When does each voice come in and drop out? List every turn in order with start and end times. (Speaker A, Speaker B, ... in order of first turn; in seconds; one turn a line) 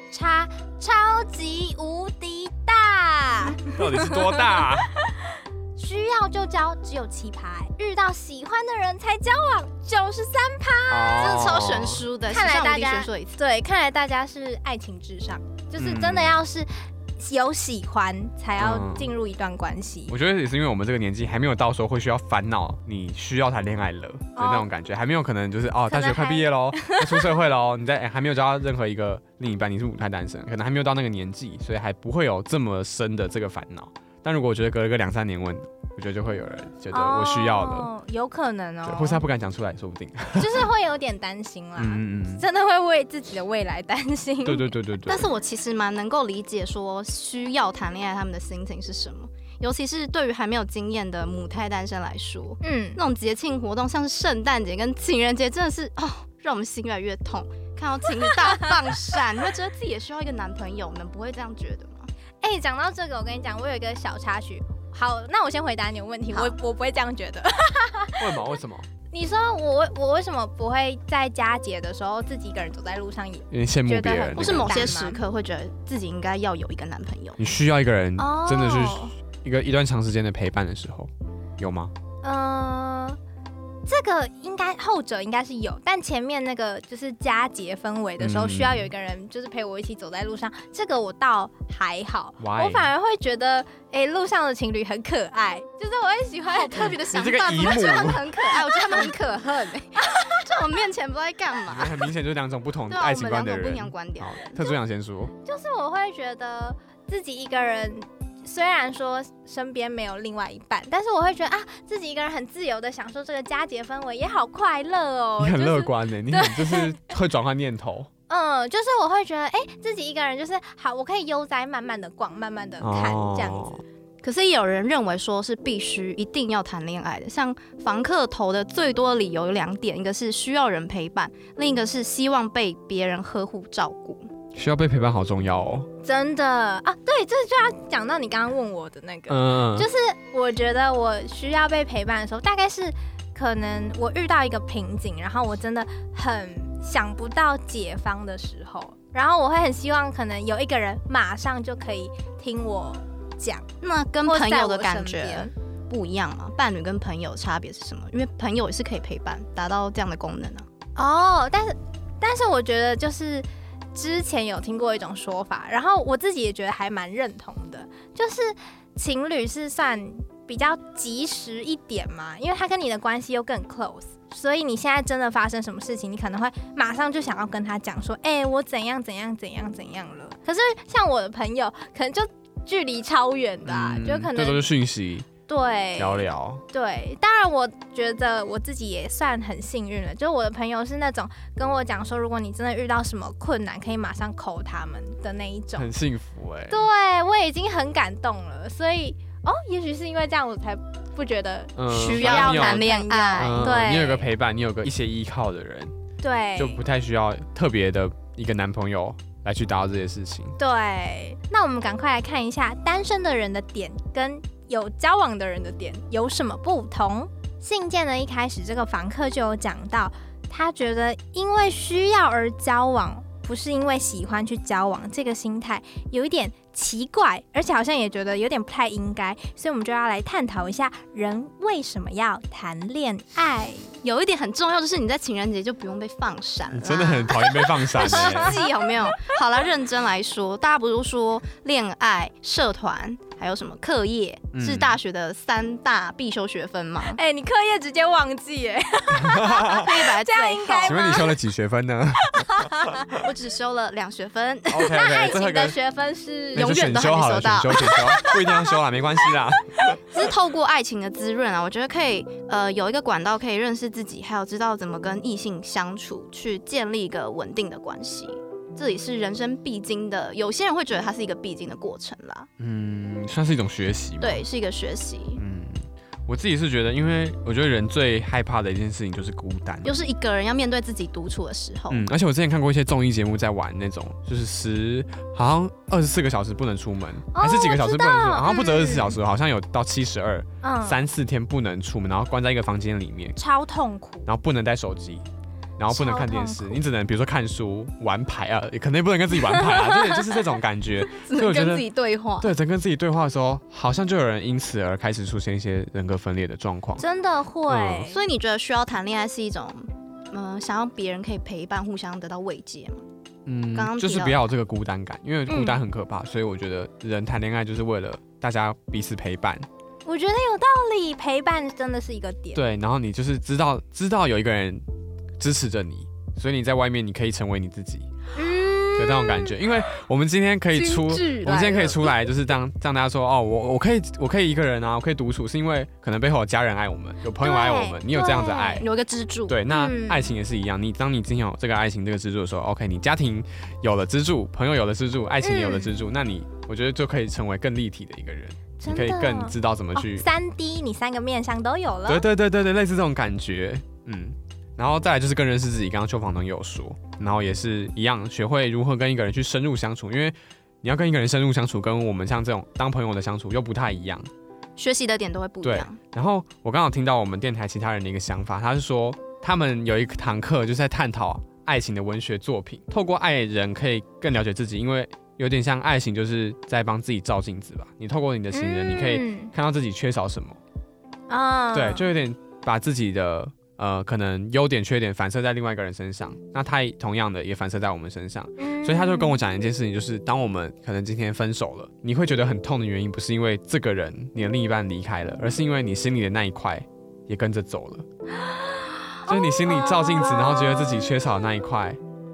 Speaker A: 0.1-5.1
Speaker B: 3.7-4.9
Speaker A: 5.8-11.4
Speaker B: 10.9-12.0
Speaker C: 11.2-13.4
Speaker A: 12.3-20.1
Speaker B: 15.8-16.4
Speaker B: 18.6-19.1
Speaker B: 20.1-37.9
Speaker A: 24.4-24.7
Speaker A: 25.9-27.3
Speaker A: 36.9-39.2
Speaker B: 38.9-40.7
Speaker A: 40.4-44.8
Speaker B: 41.8-42.5
Speaker B: 44.5-45.3
Speaker C: 45.1-62.1
Speaker A: 52.6-53.0
Speaker A: 62.4-68.3
Speaker B: 68.2-68.9
Speaker A: 69.1-75.2
Speaker B: 73.5-75.0
Speaker C: 74.4-77.4
Speaker B: 77.4-81.9
Speaker A: 78.2-79.1
Speaker A: 82.2-83.2
Speaker A: 83.9-97.0
Speaker B: 88.2-88.9
Speaker B: 92.4-92.9
Speaker C: 96.5-102.1
Speaker B: 97.1-98.3
Speaker A: 97.6-98.0
Speaker A: 98.5-99.1
Speaker A: 100.0-100.5
Speaker B: 101.7-105.3
Speaker C: 102.9-104.4
Speaker A: 104.5-104.8
Speaker A: 105.4-117.0
Speaker B: 115.4-118.1
Speaker A: 118.3-123.8
Speaker B: 122.8-123.8
Speaker C: 124.2-134.3
Speaker B: 134.5-135.9
Speaker A: 136.0-153.7
Speaker B: 139.3-139.9
Speaker C: 153.8-160.7
Speaker A: 154.2-155.5
Speaker A: 161.0-184.7
Speaker B: 183.7-185.3
Speaker A: 185.5-195.9
Speaker B: 186.0-186.6
Speaker B: 195.8-196.8
Speaker A: 196.7-204.3
Speaker B: 201.8-205.9
Speaker C: 201.9-203.6
Speaker A: 206.2-206.8
Speaker B: 206.6-210.6
Speaker A: 210.6-234.0
Speaker C: 234.0-247.2
Speaker B: 236.7-238.6
Speaker A: 237.8-239.4
Speaker B: 244.5-245.0
Speaker A: 247.0-251.3
Speaker B: 249.2-249.8
Speaker C: 249.6-251.2
Speaker B: 250.8-253.1
Speaker A: 252.2-253.1
Speaker C: 253.1-255.0
Speaker B: 254.7-255.8
Speaker A: 254.8-256.7
Speaker B: 256.5-260.0
Speaker C: 256.6-258.2
Speaker A: 257.8-258.7
Speaker C: 260.0-272.5
Speaker B: 272.6-274.5
Speaker C: 274.2-275.4
Speaker B: 275.4-280.0
Speaker C: 279.8-282.1
Speaker B: 281.9-293.4
Speaker A: 287.3-289.2
Speaker A: 290.6-291.0
Speaker A: 293.4-294.3
Speaker B: 294.3-295.2
Speaker B: 295.8-301.9
Speaker A: 295.9-296.8
Speaker A: 299.6-300.2
Speaker C: 301.1-302.5
Speaker B: 302.4-307.0
Speaker A: 307.0-308.2
Speaker B: 307.7-308.1
Speaker C: 308.1-313.0
Speaker B: 313.5-319.7
Speaker C: 313.7-314.4
Speaker A: 315.5-315.8
Speaker A: 320.1-322.6
Speaker B: 322.6-324.8
Speaker B: 325.4-328.1
Speaker A: 328.4-329.6
Speaker B: 329.0-338.9
Speaker C: 330.7-332.1
Speaker A: 337.4-338.9
Speaker C: 338.8-339.6
Speaker B: 339.5-350.3
Speaker A: 339.7-340.3
Speaker A: 345.4-346.0
Speaker A: 348.8-352.2
Speaker B: 352.1-364.3
Speaker C: 364.8-366.0
Speaker B: 365.6-380.6
Speaker A: 378.5-379.5
Speaker A: 381.3-382.1
Speaker B: 381.7-398.1
Speaker A: 388.6-389.4
Speaker A: 399.3-401.1
Speaker B: 399.3-402.0